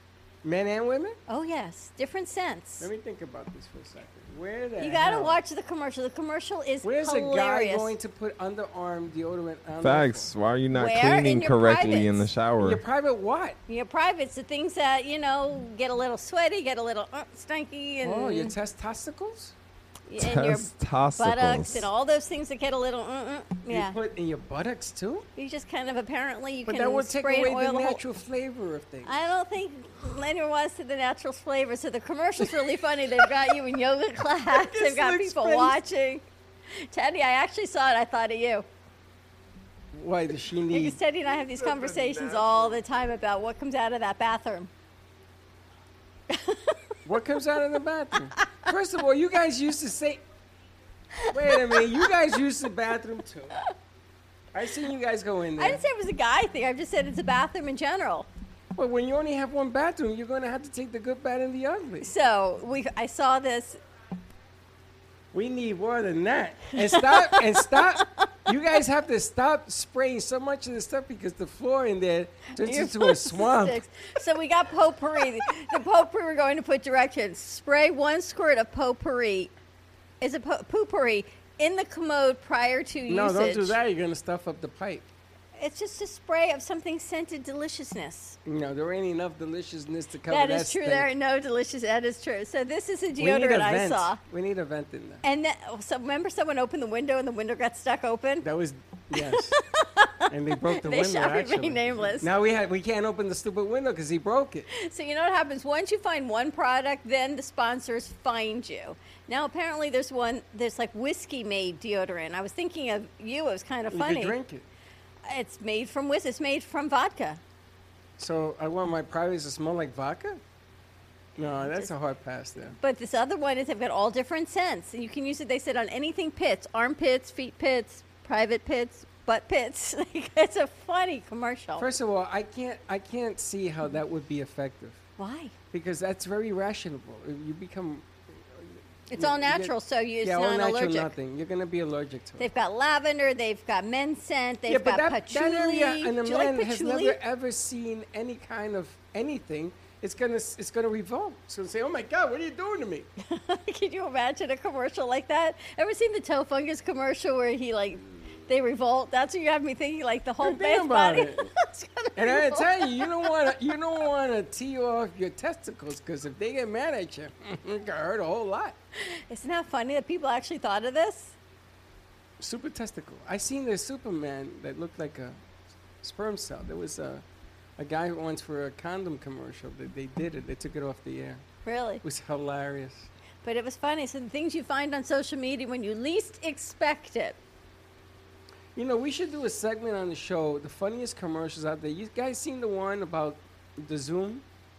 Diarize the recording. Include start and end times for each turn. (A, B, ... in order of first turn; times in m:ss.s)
0:00.4-0:01.2 A
0:01.3-0:02.9 B
0:02.8-0:05.4 A
0:04.8-0:07.9 B
0:06.8-0:10.3 A
0:09.8-0:12.8 C
0:10.7-0:12.3 B
0:12.6-0:13.6 A
0:13.7-0:18.5 B
0:18.0-0:19.5 A
0:20.1-0:24.0 B
0:20.2-0:21.9 C
0:23.7-0:25.3 A
0:25.4-0:28.0 B
0:26.6-0:29.1 A
0:29.0-0:36.2 B
0:34.5-0:35.8 A
0:36.9-0:38.6 B
0:39.9-0:41.0 A
0:40.7-0:44.7 B
0:41.7-0:42.6 A
0:46.3-0:46.8 B
0:47.0-0:50.2 A
0:51.2-0:51.8 B
0:51.3-0:53.6 A
0:54.5-0:55.8 A
0:55.6-0:58.3 B
0:58.8-1:02.1 A
1:02.0-1:03.8 B
1:05.3-1:13.8 A
1:06.9-1:07.4 B
1:12.6-1:19.5 B
1:20.2-1:23.8 B
1:23.1-1:25.1 A
1:25.6-1:28.4 B
1:28.4-1:31.1 A
1:30.3-1:34.2 B
1:33.2-1:35.2 A
1:35.2-1:38.4 B
1:38.4-1:39.6 A
1:39.1-1:42.3 B
1:40.3-1:44.7 A
1:44.7-1:54.4 B
1:53.9-1:54.6 A
1:55.2-1:57.4 B
1:58.2-2:00.4 A
2:01.4-2:02.8 A
2:01.6-2:01.9 B
2:02.8-2:11.9 B
2:11.8-2:15.0 A
2:15.2-2:15.5 B
2:15.7-2:18.1 A
2:19.1-2:21.1 B
2:19.1-2:22.5 A
2:22.4-2:27.2 B
2:24.7-2:33.1 A
2:33.2-2:43.3 B
2:40.4-2:41.5 A
2:42.2-2:48.8 A
2:49.0-2:51.3 B
2:52.4-2:55.4 A
2:56.0-2:57.2 A
2:57.8-3:01.4 A
3:01.6-3:02.0 B
3:02.0-3:03.1 A
3:03.4-3:07.4 B
3:08.7-3:14.4 A